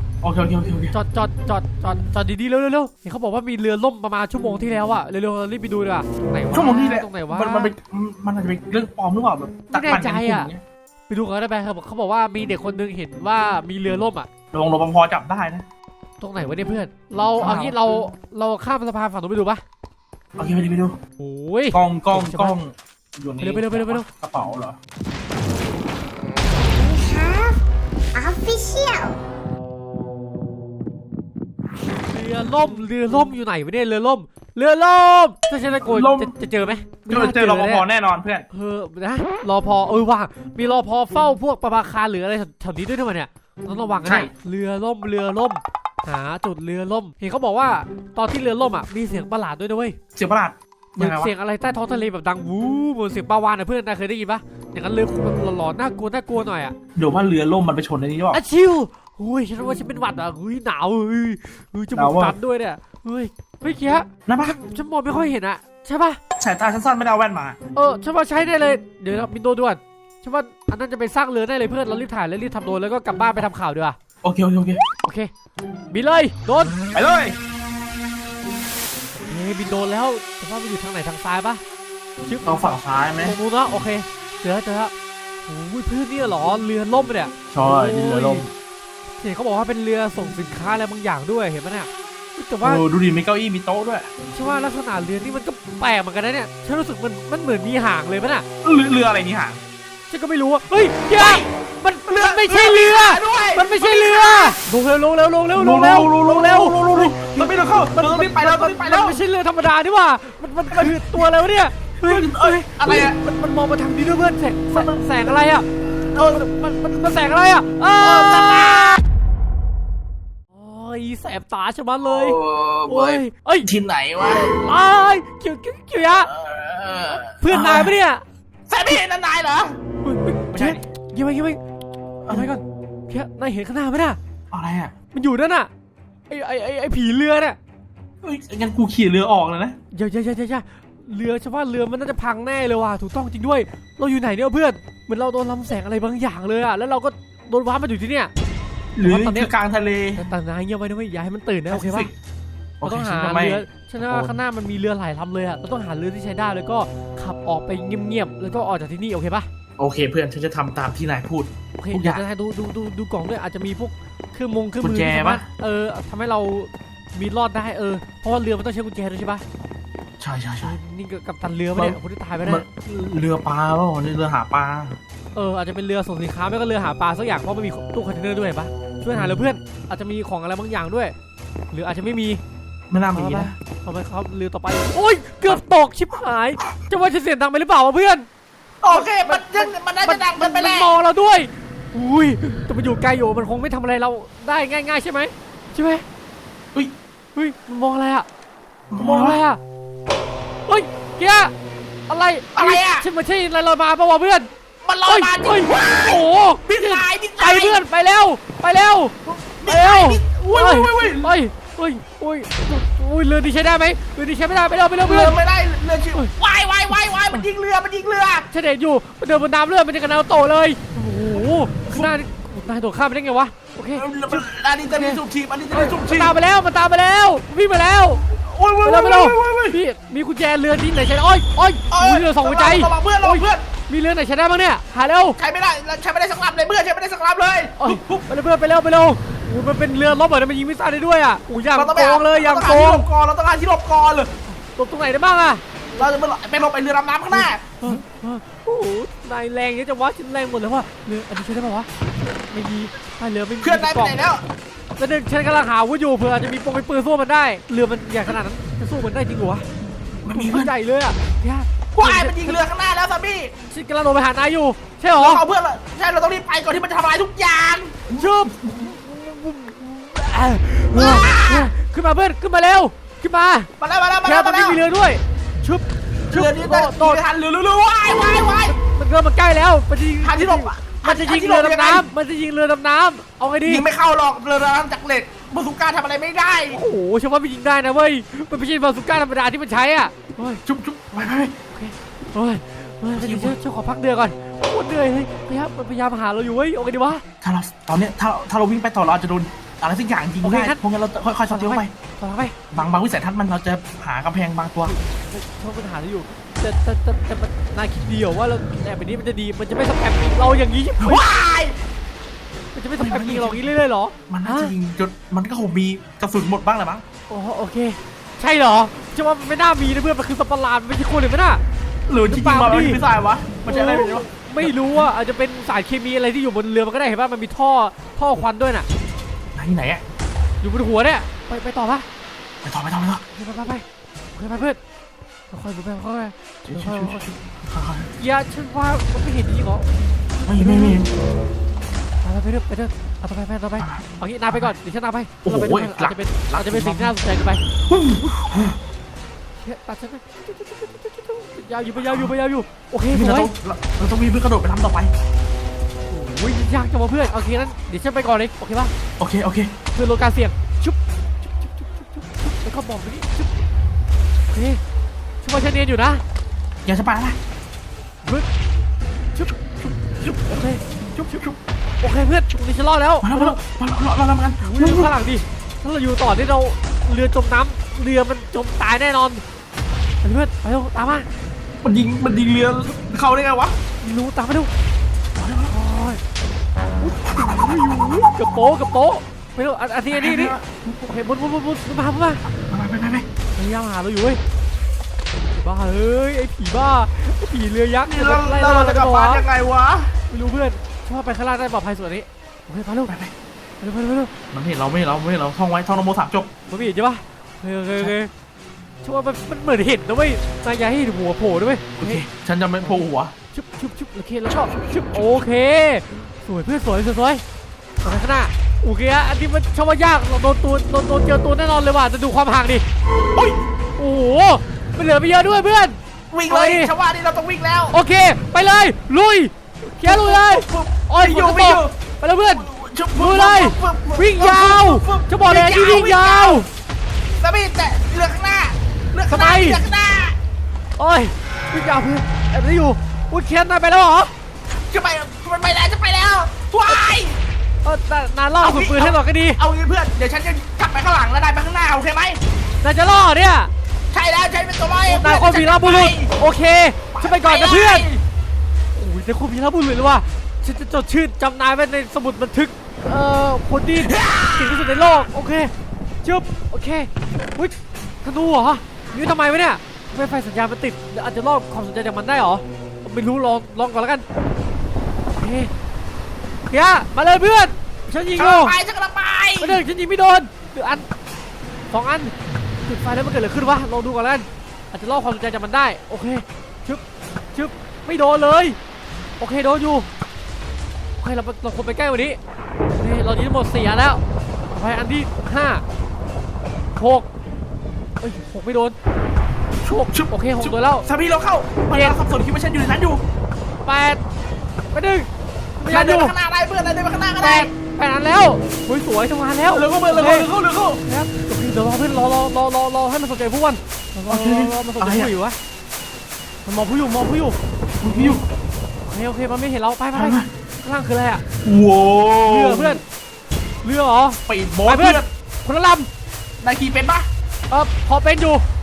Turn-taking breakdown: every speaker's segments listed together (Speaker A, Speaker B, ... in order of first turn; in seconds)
Speaker A: 0.2-0.9, 6.5-10.6, 14.5-15.7, 17.4-17.8, 20.4-21.0, 21.7-24.8, 35.8-36.3, 37.1-38.5, 44.0-44.3, 50.2-51.3, 57.0-58.4, 62.0-62.4, 64.3-64.6, 66.4-67.6, 74.2-74.8, 76.9-77.4, 82.5-83.4, 87.5-88.5, 92.6-94.1, 98.6-99.6, 101.1-101.5, 102.1-104.6, 105.5-109.2, 110.7-111.3, 112.0-113.2, 114.7-115.2, 116.0-116.5, 118.0-119.0, 122.0-124.6, 126.3-128.0, 128.7-129.8, 130.5-130.8, 134.5-134.9, 138.2-139.8, 149.0-150.3, 151.7-152.1, 152.8-154.3, 159.8-162.2, 164.8-165.5, 170.2-170.8, 171.8-175.0, 179.1-179.5, 182.9-183.5, 188.8-190.9, 198.9-199.4, 202.6-203.1, 204.8-207.8, 209.3-211.3, 215.0-218.5, 221.3-222.1, 223.9-226.3, 228.3-229.8, 231.9-233.7, 235.4-238.3, 241.7-244.3, 245.9-248.0, 253.6-254.4, 260.2-260.7, 261.9-263.5, 265.2-268.8, 270.9-271.7, 273.8-274.8, 276.3-278.8, 280.2-282.1, 283.6-286.8, 290.7-291.5, 293.1-293.6, 297.4-301.9, 302.7-304.9, 311.0-311.8, 312.9-313.7, 314.3-317.0, 322.1-325.1, 329.5-330.0, 332.6-333.2, 336.7-338.1, 340.5-341.1, 343.8-344.7, 345.4-347.2, 347.8-348.8, 352.0-352.3, 353.1-355.1, 359.2-359.7, 366.9-367.4, 371.2-371.6, 373.2-375.1, 381.8-383.8, 385.4-385.8, 390.1-390.7, 392.6-393.3, 398.1-400.1, 403.1-403.3, 404.5-406.5, 412.0-413.3, 423.3-423.6, 426.3-428.0, 430.0-431.9, 432.5-436.7, 437.4-440.4, 444.8-447.4, 448.6-452.4, 454.1-456.3, 457.1-458.2, 463.9-465.0, 478.4-479.8, 499.8-503.2, 505.9-507.7, 509.7-511.0, 514.3-515.3, 518.0-518.5, 520.1-520.5, 521.6-523.0, 524.5-525.3, 526.6-527.3
Speaker B: 0.9-7.7, 9.7-10.5, 11.1-14.3, 16.2-19.6, 21.2-22.6, 23.4-24.1, 32.0-37.9, 38.5-50.0, 51.0-56.8, 58.3-66.2, 67.8-74.0, 75.0-75.3, 75.9-76.8, 79.2-81.6, 82.3-84.9, 85.5-88.5, 89.2-92.8, 94.3-98.5, 100.1-115.7, 116.3-118.8, 120.5-123.7, 124.3-126.3, 127.3-128.2, 130.0-131.6, 132.3-134.2, 135.1-135.7, 136.3-137.6, 139.9-148.3, 149.0-149.5, 150.2-152.1, 152.8-159.5, 161.8-169.4, 170.6-172.6, 175.3-181.1, 181.7-182.4, 183.1-188.3, 188.9-196.0, 197.3-198.3, 199.0-199.6, 200.7-201.5, 202.1-204.5, 205.1-215.4, 218.5-225.2, 225.7-228.2, 228.8-235.4, 237.8-243.1, 244.5-245.6, 247.3-251.9, 252.5-254.2, 255.0-259.6, 260.3-262.6, 263.7-265.4, 268.1-273.7, 274.2-277.2, 278.7-283.9, 286.7-290.6, 291.7-297.2, 300.4-300.8, 301.5-302.6, 304.9-311.2, 312.7-314.7, 317.3-321.6, 322.3-323.0, 323.6-328.9, 330.6-332.1, 333.3-333.8, 334.4-334.8, 335.5-337.2, 338.2-339.9, 340.6-341.0, 342.2-347.6, 349.6-353.5, 356.1-358.9, 359.9-363.5, 364.5-364.8, 365.4-366.2, 369.4-369.6, 370.2-371.4, 372.0-373.6, 374.6-379.4, 380.2-381.3, 384.0-384.7, 385.7-386.2, 387.0-392.4, 393.6-394.4, 395.5-399.4, 400.3-403.1, 403.8-404.3, 406.7-408.3, 409.0-412.2, 413.5-417.4, 418.0-422.8, 424.0-426.9, 427.9-436.7, 439.3-439.8, 441.0-444.3, 447.9-449.6, 452.8-453.7, 455.1-458.1, 458.9-465.7, 466.2-474.2, 475.3-475.7, 476.7-478.8, 479.6-481.1, 481.9-487.0, 487.5-488.8, 489.4-490.1, 491.2-492.4, 492.9-495.8, 497.0-497.3, 498.2-498.9, 499.9-501.1, 501.9-502.2, 503.9-504.2, 504.9-505.3, 505.8-506.4, 507.4-510.5, 511.0-515.6, 516.7-517.6, 518.1-518.4, 519.0-521.4, 522.5-523.0, 523.8-526.1, 527.7-528.6
Speaker C: 26.7-27.6, 28.1-29.2